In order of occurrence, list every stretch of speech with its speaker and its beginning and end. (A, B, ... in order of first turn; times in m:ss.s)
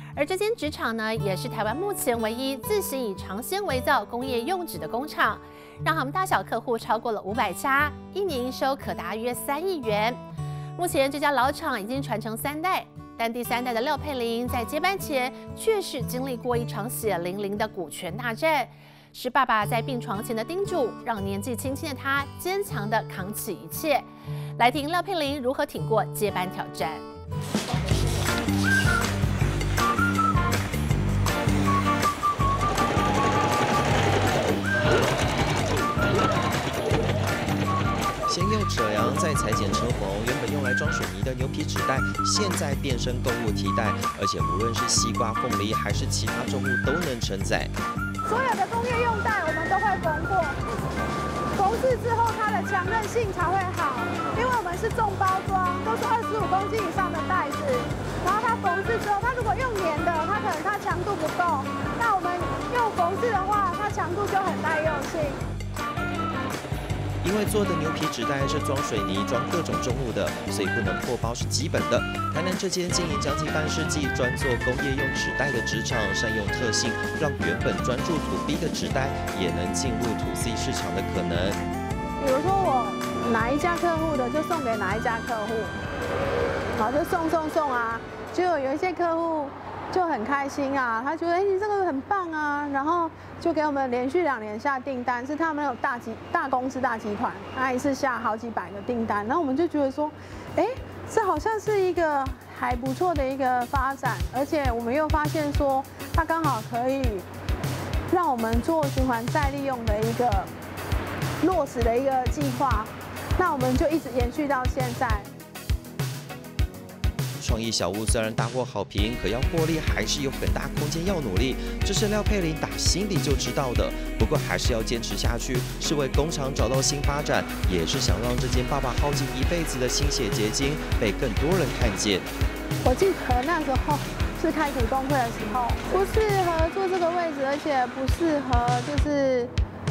0:00.2-0:10.2 A
0:10.8-0:24.1 A
0:24.6-0:27.1 A
0:38.3-0:47.7 B
0:48.3-0:50.6 C
0:51.6-1:05.4 C
1:07.2-1:21.6 B
1:22.2-1:25.8 C
1:26.8-1:47.3 C
1:48.1-1:50.5 C
1:51.4-1:55.3 C
1:57.4-2:12.3 B
2:12.8-2:19.5 C